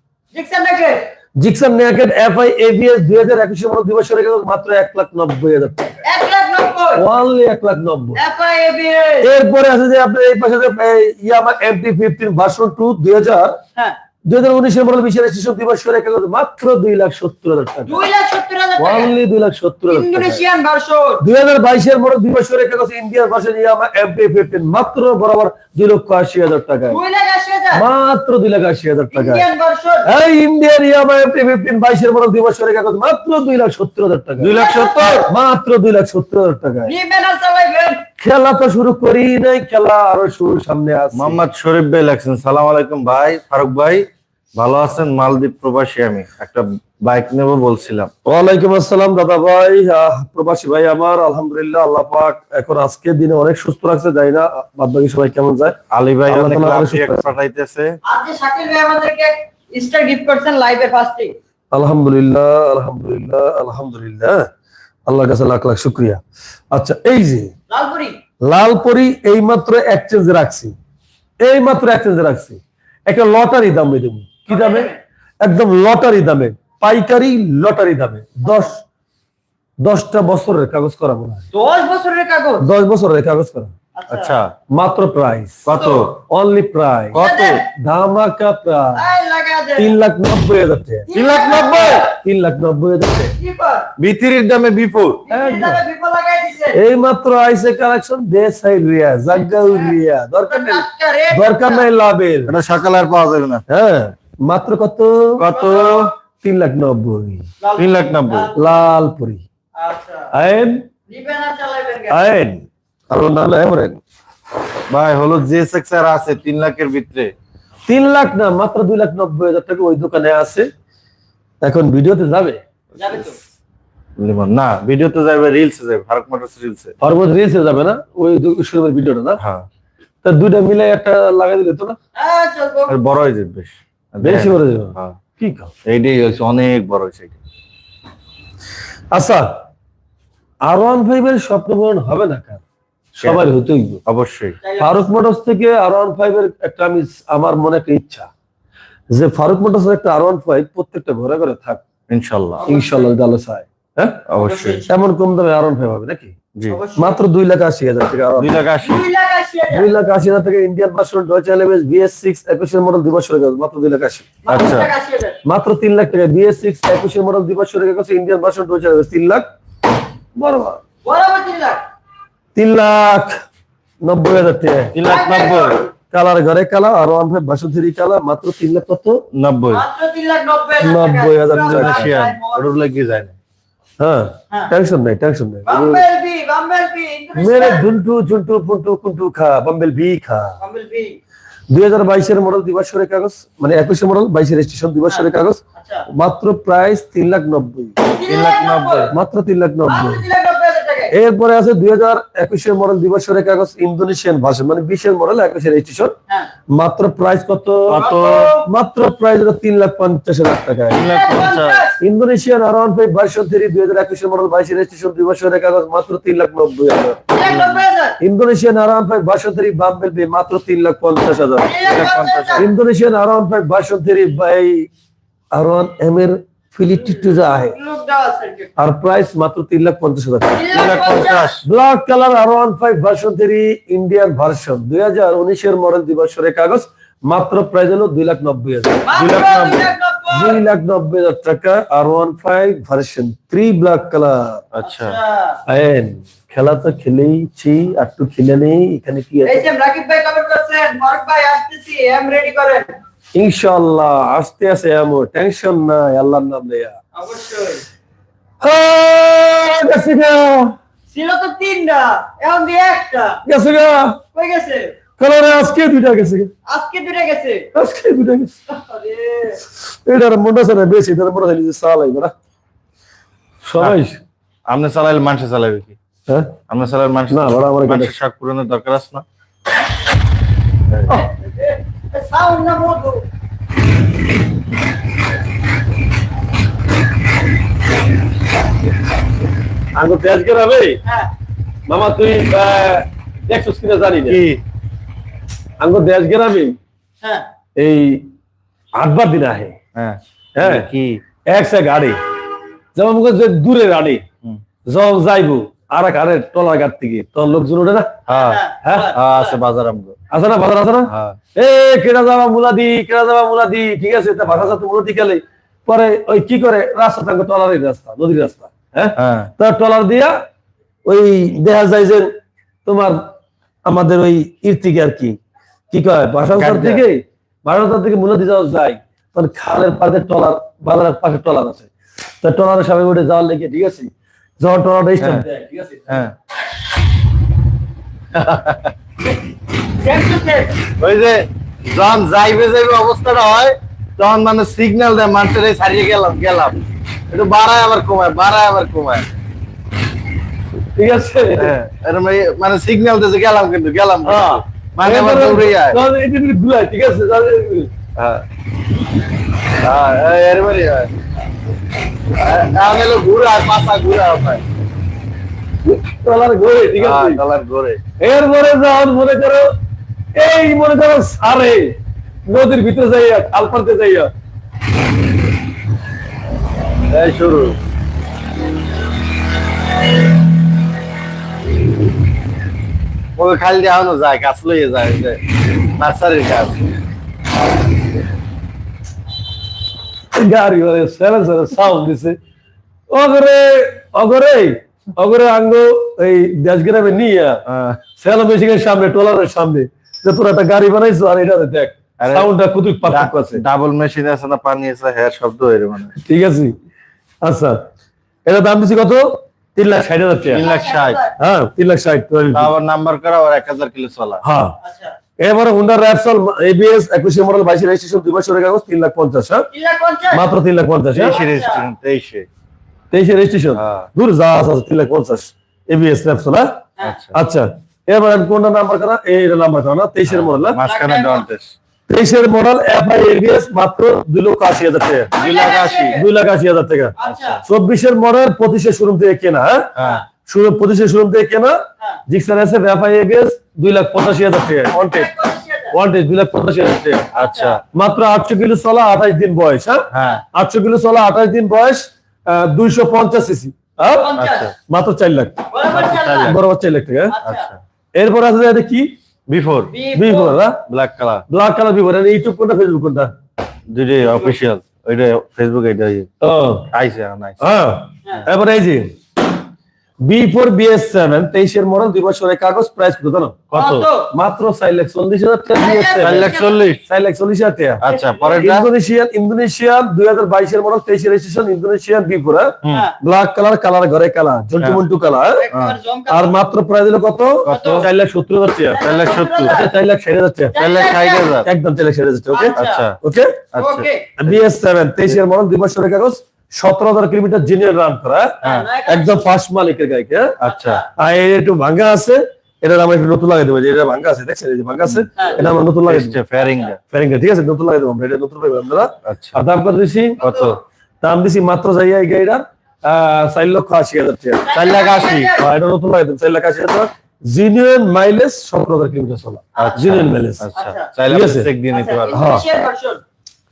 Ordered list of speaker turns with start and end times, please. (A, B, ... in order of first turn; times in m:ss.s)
0:00.3-0:01.1 A
0:01.4-0:06.0 B
0:06.0-0:07.0 A
0:07.0-0:08.2 B
0:08.2-0:09.3 A
0:09.2-0:13.6 B
0:14.3-0:18.0 B
0:17.9-0:19.2 A
0:18.8-0:20.4 B
0:19.9-0:21.2 A
0:21.2-0:27.0 B
0:26.9-0:27.8 A
0:27.7-0:29.4 B
0:29.1-0:30.1 A
0:30.0-0:34.5 B
0:34.4-0:35.2 C
0:34.5-0:35.3 A
0:35.3-0:36.9 B
0:36.9-0:38.0 A
0:38.2-0:41.5 B
0:41.1-0:48.1 C
0:48.3-0:57.3 B
0:55.9-0:58.0 C
0:58.1-1:01.4 A
1:01.7-1:04.5 B
1:05.1-1:07.5 B
1:07.7-1:08.2 A
1:08.4-1:10.8 B
1:11.4-1:18.8 B
1:14.5-1:15.0 A
1:18.4-1:18.7 A
1:19.8-1:21.5 B
1:21.5-1:22.7 A
1:22.6-1:23.7 B
1:24.0-1:24.4 A
1:24.1-1:24.5 C
1:24.7-1:29.1 B
1:25.6-1:26.2 C
1:25.8-1:26.0 A
1:27.1-1:27.6 C
1:27.1-1:27.7 A
1:29.0-1:30.0 A
1:29.8-1:31.1 B
1:31.1-1:32.2 A
1:31.1-1:32.1 C
1:32.1-1:33.3 B
1:33.4-1:33.9 A
1:34.0-1:35.2 C
1:35.3-1:36.8 A
1:35.3-1:35.8 B
1:36.7-1:42.6 B
1:39.4-1:41.9 A
1:42.5-1:43.6 C
1:43.7-1:45.5 B
1:45.4-1:46.1 C
1:45.5-1:46.1 A
1:46.4-1:47.5 B
1:47.6-1:48.9 A
1:47.8-1:48.5 C
1:48.6-1:49.4 B
1:49.8-1:50.3 A
1:50.3-1:50.8 B
1:51.1-1:52.3 A
1:52.1-1:54.0 B
1:54.9-1:57.3 C
1:57.9-2:00.7 B
2:01.6-2:02.6 B
2:03.0-2:03.4 A
2:04.2-2:07.0 C
2:07.0-2:09.4 B
2:09.4-2:09.7 C
2:10.2-2:12.0 B
2:12.2-2:12.9 A
2:12.9-2:15.2 C
2:14.2-2:15.7 B
2:15.9-2:17.4 C
2:19.1-2:19.5 B
2:20.7-2:22.6 B
2:23.2-2:24.0 B
2:23.2-2:23.5 C
2:24.1-2:24.6 C
2:24.6-2:25.1 A
2:24.8-2:28.3 B
2:29.1-2:31.8 B
2:32.1-2:32.6 C
2:32.6-2:33.1 A
2:32.7-2:34.2 B
2:34.3-2:34.8 C
2:34.4-2:34.9 A
2:34.9-2:36.4 B
2:36.7-2:37.2 A
2:37.0-2:38.6 B
2:38.4-2:39.1 C
2:38.8-2:39.9 A
2:39.7-2:44.3 B
2:44.4-2:45.4 A
2:44.5-2:44.9 C
2:45.4-2:49.4 B
2:50.4-2:50.8 B
2:51.0-2:51.8 A
2:52.6-2:53.4 B
2:54.0-2:55.0 B
2:54.9-2:55.8 C
2:55.0-2:55.9 A
2:56.1-2:59.2 B
2:59.3-2:59.8 C
2:59.7-3:02.6 A
3:00.8-3:02.1 B
3:01.5-3:03.4 C
3:04.0-3:06.0 B
3:05.7-3:07.8 A
3:07.4-3:10.6 B
3:10.6-3:11.2 A
3:11.7-3:15.6 B
3:15.1-3:16.1 A
3:16.1-3:18.0 B
3:18.0-3:19.1 A
3:18.3-3:19.1 C
3:19.1-3:20.2 B
3:19.9-3:21.2 A
3:21.1-3:26.2 B
3:26.7-3:28.1 B
3:27.9-3:28.6 C
3:28.0-3:28.6 A
3:28.6-3:31.0 B
3:30.9-3:31.8 C
3:31.0-3:32.0 A
3:32.0-3:37.2 B
3:37.3-3:38.2 A
3:37.4-3:37.8 C
3:38.2-3:41.7 B
3:41.6-3:42.7 A
3:41.8-3:42.7 C
3:42.6-3:44.9 B
3:45.5-3:47.8 B
3:47.1-3:48.7 A
3:48.8-3:50.8 B
3:50.5-3:51.6 A
3:50.7-3:51.6 C
3:51.6-4:04.6 B
3:59.1-4:00.6 A
4:04.7-4:05.2 C
4:04.8-4:05.6 A
4:05.7-4:09.6 B
4:09.4-4:12.9 A
4:13.4-4:17.0 B
4:17.2-4:17.8 A
4:18.6-4:20.8 B
4:21.1-4:23.4 A
4:23.4-4:24.2 B
4:24.3-4:24.9 A
4:25.2-4:26.5 B
4:26.7-4:27.7 A
4:27.7-4:28.5 B
4:28.7-4:29.6 A
4:29.8-4:32.3 B
4:33.6-4:34.2 B
4:34.7-4:36.0 C
4:36.3-4:36.6 B
4:36.7-4:39.2 C
4:37.3-4:38.2 B
4:41.1-4:43.3 A
4:50.0-4:51.0 B
4:51.0-4:51.3 A
4:51.9-4:54.4 B
4:54.3-4:54.6 C
4:55.8-4:56.8 B
4:57.2-4:57.5 A
4:57.8-4:58.3 B
4:59.0-4:59.8 B
5:00.0-5:01.2 C
5:00.6-5:00.9 B
5:01.5-5:02.2 B
5:03.0-5:04.2 B
5:04.9-5:08.2 B
5:08.3-5:09.6 A
5:08.3-5:10.2 C
5:08.8-5:09.1 B
5:10.3-5:20.4 B
5:11.1-5:11.4 C
5:19.2-5:19.5 C
5:21.0-5:22.3 B
5:22.8-5:23.3 B
5:23.9-5:25.4 B
5:25.9-5:31.9 B
5:26.5-5:27.0 C
5:32.4-5:36.3 B
5:35.2-5:35.4 C
5:36.1-5:36.3 C
5:38.3-5:38.9 C
5:40.0-5:40.8 A
5:41.0-5:46.8 C
5:47.3-5:49.3 C
5:51.0-5:51.7 B
5:51.6-5:56.0 C
5:54.2-5:57.9 B
5:58.2-5:58.4 C
5:59.8-6:01.1 C
6:02.3-6:04.6 C
6:05.8-6:07.4 B
6:07.0-6:08.0 C
6:08.2-6:09.7 B
6:10.4-6:12.0 B
6:12.5-6:14.3 B
6:17.1-6:17.8 C
6:23.4-6:25.4 C
6:26.0-6:26.8 C
6:30.4-6:32.4 B
6:33.1-6:37.6 B
6:37.7-6:38.0 C
6:38.2-6:43.6 B
6:42.2-6:42.5 C
6:43.1-6:46.2 C
6:46.2-6:46.8 B
6:47.4-6:47.9 B
6:48.5-6:50.6 B
6:50.5-6:51.4 A
6:50.5-6:51.2 C
6:51.4-6:52.7 B
6:52.5-6:54.4 C
6:54.4-6:54.8 B
6:54.8-6:55.2 A
6:55.4-6:59.7 B
6:59.7-7:00.5 A
7:00.3-7:01.4 B
7:01.1-7:02.5 C
7:01.3-7:01.9 A
7:03.1-7:06.7 B
7:03.8-7:04.1 C
7:07.0-7:07.4 C
7:07.3-7:10.8 B
7:10.3-7:11.8 C
7:10.8-7:11.5 A
7:12.1-7:15.3 B
7:15.3-7:16.2 A
7:15.4-7:16.2 C
7:16.1-7:19.9 B
7:17.2-7:17.6 A
7:17.2-7:17.6 C
7:20.0-7:20.2 C
7:20.0-7:20.2 A
7:20.5-7:25.3 B
7:24.9-7:26.0 A
7:25.9-7:27.2 B
7:27.2-7:27.8 C
7:27.3-7:27.8 A
7:27.9-7:34.3 B
7:30.1-7:30.4 C
7:34.0-7:34.7 A
7:34.4-7:34.7 C
7:34.9-7:35.6 B
7:35.7-7:36.6 A
7:35.9-7:36.6 C
7:36.4-7:37.4 B
7:37.3-7:37.7 A
7:37.4-7:37.8 C
7:38.2-7:39.1 B
7:39.5-7:40.0 C
7:39.9-7:40.6 A
7:40.1-7:40.8 B
7:40.9-7:41.5 C
7:41.5-7:43.3 B
7:43.9-7:46.3 C
7:44.3-7:44.5 A
7:46.4-7:46.9 B
7:46.9-7:47.8 C
7:47.6-7:49.1 B
7:50.2-7:58.0 B
7:53.7-7:54.3 A
7:55.8-7:56.8 A
7:56.2-7:57.0 C
7:58.0-7:58.9 C
7:58.1-7:58.6 A
7:58.6-8:05.6 B
8:02.9-8:03.2 A
8:05.5-8:06.6 A
8:06.3-8:09.0 B
8:07.6-8:08.1 C
8:07.7-8:08.0 A
8:08.9-8:09.9 A
8:09.0-8:09.7 C
8:09.7-8:10.8 B
8:10.7-8:11.6 A
8:10.8-8:11.7 C
8:11.6-8:13.6 B
8:12.5-8:13.1 A
8:12.8-8:13.2 C
8:13.7-8:14.6 C
8:13.8-8:14.3 A
8:14.4-8:20.6 B
8:18.6-8:19.5 A
8:20.6-8:21.0 C
8:20.6-8:21.1 A
8:21.2-8:26.4 B
8:26.0-8:27.0 C
8:26.6-8:26.9 A
8:27.1-8:30.4 B
8:29.3-8:29.6 C
8:30.4-8:30.8 C
8:30.4-8:30.7 A
8:31.2-8:34.7 B
8:34.6-8:35.7 A
8:34.7-8:35.6 C
8:35.6-8:40.7 B
8:39.8-8:40.2 A
8:39.8-8:42.5 C
8:40.8-8:41.1 A
8:41.3-8:41.7 B
8:41.9-8:43.2 A
8:42.3-8:42.6 B